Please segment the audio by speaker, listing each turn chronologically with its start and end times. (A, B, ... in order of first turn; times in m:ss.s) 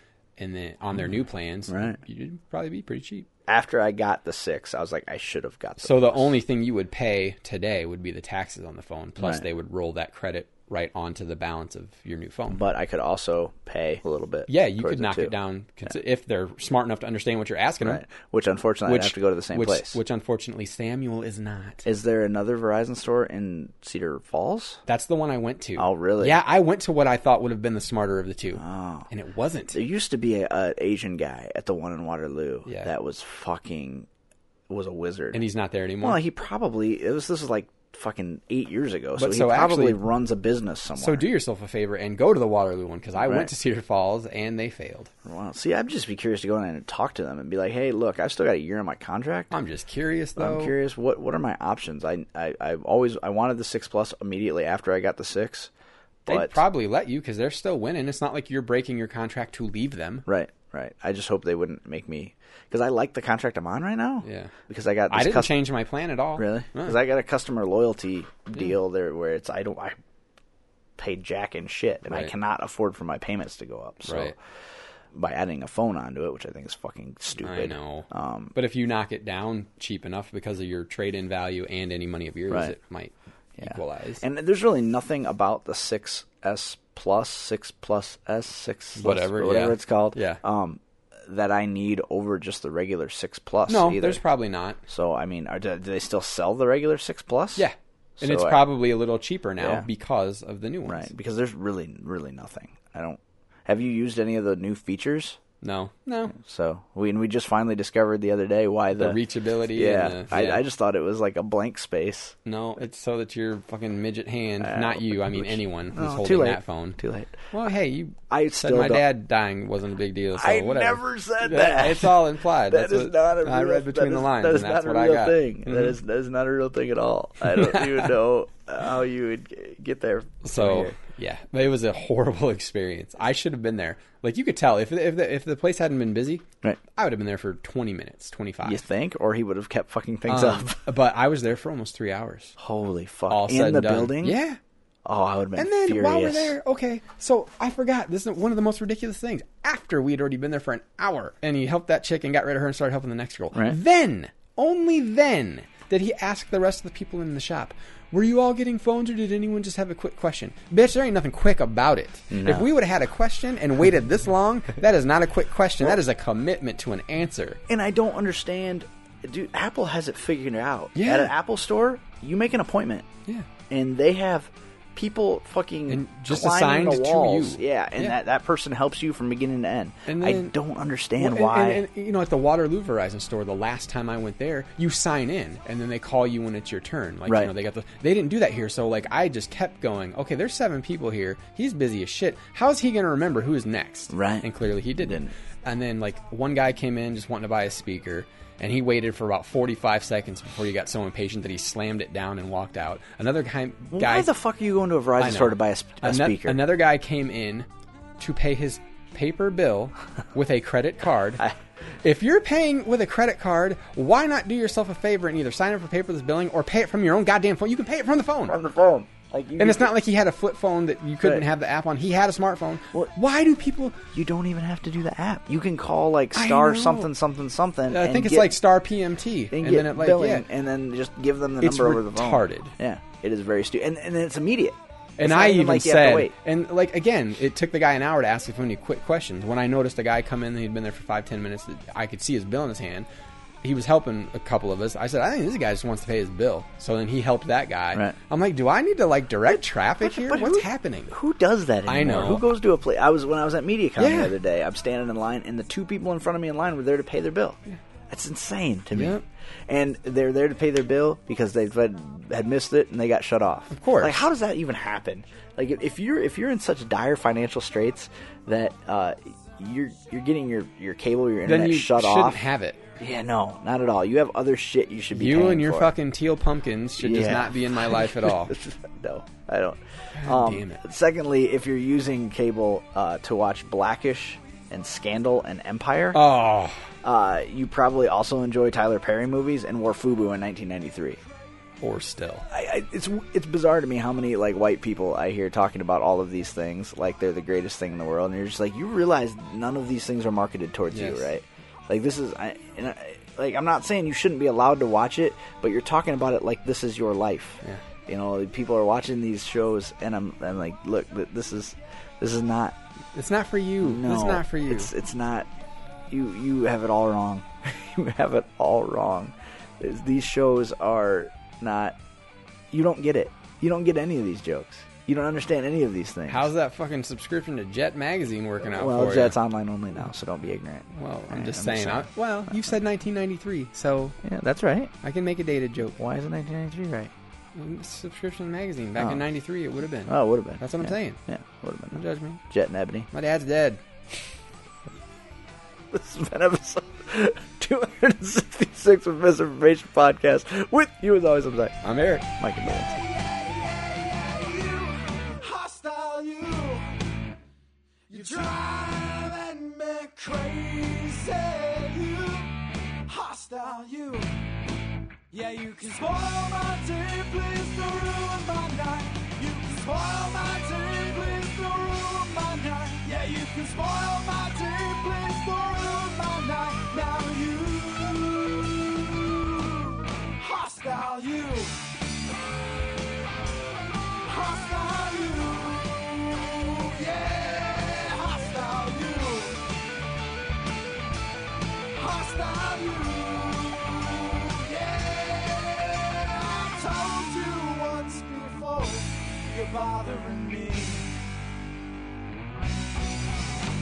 0:00.4-0:03.3 A
0:01.7-0:02.0 B
0:03.5-0:06.2 B
0:05.8-0:12.6 A
0:09.2-0:09.4 B
0:12.5-0:15.3 B
0:14.5-0:18.0 A
0:17.8-0:20.0 B
0:18.8-0:21.8 A
0:21.8-0:24.8 B
0:24.9-0:29.8 A
0:25.8-0:26.4 B
0:28.6-0:29.1 B
0:29.7-0:34.1 B
0:32.6-0:32.9 A
0:34.7-0:35.4 B
0:35.3-0:36.2 A
0:36.0-0:41.3 B
0:39.2-0:40.0 A
0:41.0-0:45.1 A
0:43.2-0:43.5 B
0:45.2-0:49.5 B
0:49.5-0:50.7 A
0:50.4-0:55.7 B
0:56.2-0:56.6 B
0:56.3-1:00.2 A
1:00.3-1:05.5 B
1:04.2-1:04.5 A
1:05.1-1:06.9 A
1:06.4-1:10.0 B
1:11.0-1:14.4 B
1:12.1-1:12.3 A
1:14.0-1:14.3 A
1:15.1-1:18.5 B
1:17.4-1:24.2 A
1:22.5-1:22.7 B
1:23.6-1:34.2 B
1:29.0-1:30.4 A
1:33.7-1:34.8 A
1:34.9-1:37.6 B
1:37.6-1:41.1 A
1:38.2-1:38.6 B
1:39.6-1:39.9 B
1:40.9-1:45.4 B
1:45.6-1:46.3 A
1:46.4-1:49.2 B
1:49.0-1:50.6 A
1:49.7-1:52.3 B
1:52.4-1:57.0 A
1:54.6-1:57.4 B
1:57.5-2:06.0 A
1:58.3-1:59.0 B
2:00.3-2:11.0 B
2:07.4-2:08.1 A
2:10.4-2:18.8 A
2:18.6-2:20.8 B
2:20.3-2:22.5 A
2:22.6-2:24.4 B
2:23.3-2:24.6 A
2:25.0-2:26.6 B
2:25.6-2:47.6 A
2:42.3-2:42.7 B
2:47.7-2:53.1 B
2:50.9-2:51.3 A
2:53.7-3:01.8 B
2:55.9-2:58.2 A
3:00.1-3:00.5 A
3:01.2-3:24.3 A
3:07.3-3:07.5 B
3:14.1-3:14.5 B
3:15.0-3:15.3 B
3:23.9-3:26.6 B
3:25.2-3:27.7 A
3:28.2-3:31.4 A
3:32.0-3:38.6 A
3:38.5-3:39.9 B
3:39.6-3:44.0 A
3:44.1-3:48.5 B
3:46.3-3:47.1 A
3:47.9-3:50.4 A
3:49.5-3:56.3 B
3:51.6-3:52.7 A
3:55.2-4:03.1 A
4:03.6-4:11.1 A
4:09.5-4:32.4 B
4:11.8-4:12.5 A
4:14.0-4:14.3 A
4:18.9-4:19.2 A
4:23.7-4:24.3 A
4:31.4-4:32.9 A
4:33.0-4:35.9 B
4:35.1-4:38.5 A
4:37.0-4:46.2 B
4:40.1-4:40.8 A
4:46.1-4:46.8 A
4:47.0-4:51.2 B
4:51.8-4:52.4 A
4:52.5-5:12.8 B
5:00.9-5:01.3 A
5:13.1-5:14.9 A
5:13.8-5:15.5 B
5:16.1-5:22.0 B
5:22.7-5:26.5 B
5:26.3-5:29.4 A
5:28.6-5:32.1 B
5:30.9-5:34.2 A
5:34.2-5:34.9 B
5:35.0-5:36.0 A
5:36.0-5:37.1 B
5:37.5-5:41.2 A
5:39.0-5:39.2 B
5:40.1-5:43.1 B
5:41.9-5:42.4 A
5:43.1-5:43.8 A
5:45.9-5:51.8 B
5:51.8-5:52.3 A
5:52.4-5:52.9 B
5:52.6-5:56.9 C
5:58.1-6:04.3 C
6:05.3-6:21.8 C
6:24.2-6:29.6 C
6:31.9-6:41.1 C